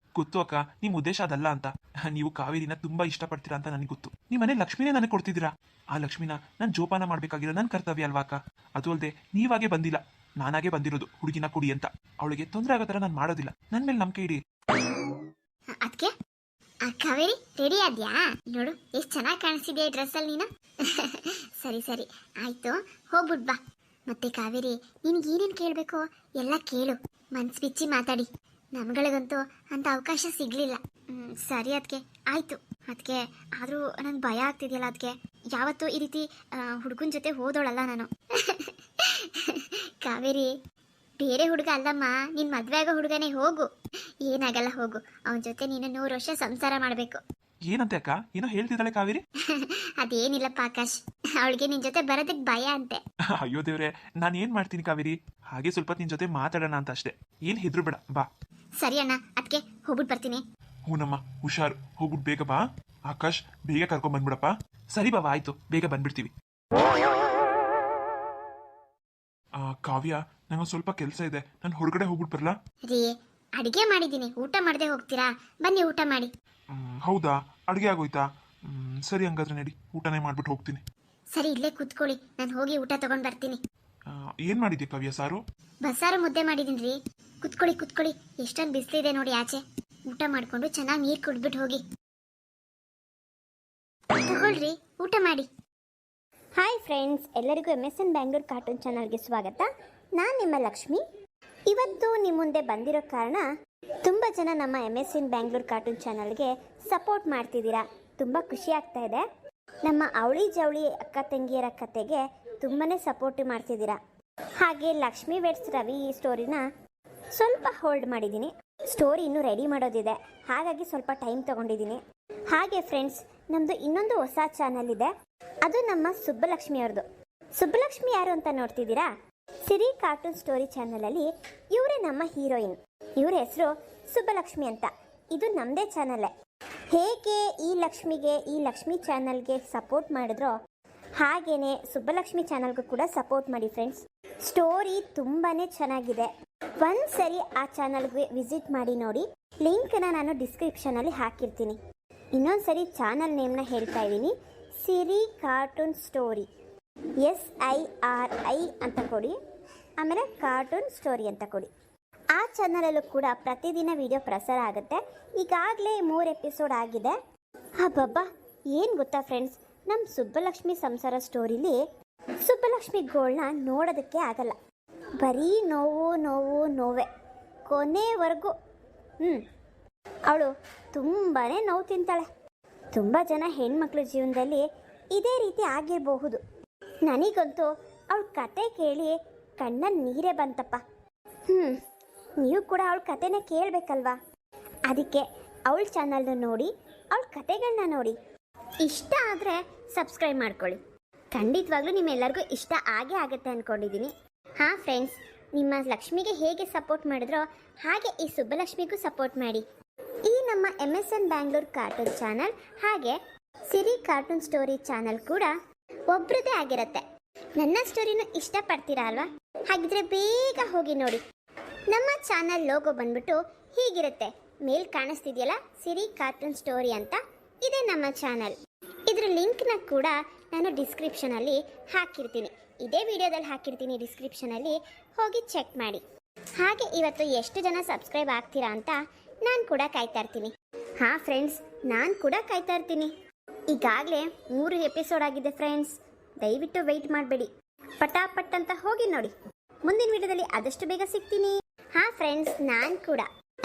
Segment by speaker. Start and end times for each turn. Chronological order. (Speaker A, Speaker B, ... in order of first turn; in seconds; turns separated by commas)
Speaker A: 0.2-14.4, Speaker B: 15.8-16.1, Speaker B: 16.9-40.5, Speaker B: 41.2-43.7, Speaker B: 44.2-47.2, Speaker A: 47.7-49.2, Speaker B: 49.5-53.0, Speaker A: 53.4-58.3, Speaker B: 58.8-60.4, Speaker A: 60.9-66.3, Speaker A: 69.6-72.5, Speaker B: 72.9-76.3, Speaker A: 76.7-80.8, Speaker B: 81.3-83.6, Speaker A: 84.4-85.4, Speaker B: 85.8-91.8, Speaker B: 94.2-95.5, Speaker C: 96.6-101.0, Speaker C: 101.7-103.4, Speaker C: 104.0-109.2, Speaker C: 109.8-114.0, Speaker C: 114.6-116.6, Speaker C: 117.3-122.0, Speaker C: 122.5-125.1, Speaker C: 125.6-127.0, Speaker C: 127.6-129.1, Speaker C: 129.7-136.3, Speaker C: 136.9-140.5, Speaker C: 141.2-146.3, Speaker C: 146.8-151.8, Speaker C: 152.3-156.5, Speaker C: 157.2-159.3, Speaker C: 160.0-161.7, Speaker C: 162.3-167.1, Speaker C: 167.8-171.8, Speaker C: 172.4-174.6, Speaker C: 175.2-177.1, Speaker C: 177.7-178.5, Speaker C: 180.3-182.3, Speaker C: 182.9-186.4, Speaker C: 187.1-190.8, Speaker C: 191.5-191.8, Speaker C: 192.4-194.2, Speaker C: 194.9-198.1, Speaker C: 198.8-200.8, Speaker C: 201.3-209.6, Speaker C: 210.3-213.2, Speaker C: 213.7-215.5, Speaker C: 216.1-216.4, Speaker B: 216.3-217.0, Speaker B: 217.6-218.9, Speaker C: 218.4-221.2, Speaker C: 221.9-222.5, Speaker B: 222.0-223.3, Speaker C: 223.2-228.5, Speaker B: 223.8-224.3, Speaker B: 224.8-225.4, Speaker B: 229.1-230.0, Speaker C: 229.1-236.0, Speaker C: 236.6-243.1, Speaker C: 243.7-247.5, Speaker C: 248.0-249.3, Speaker C: 249.9-253.3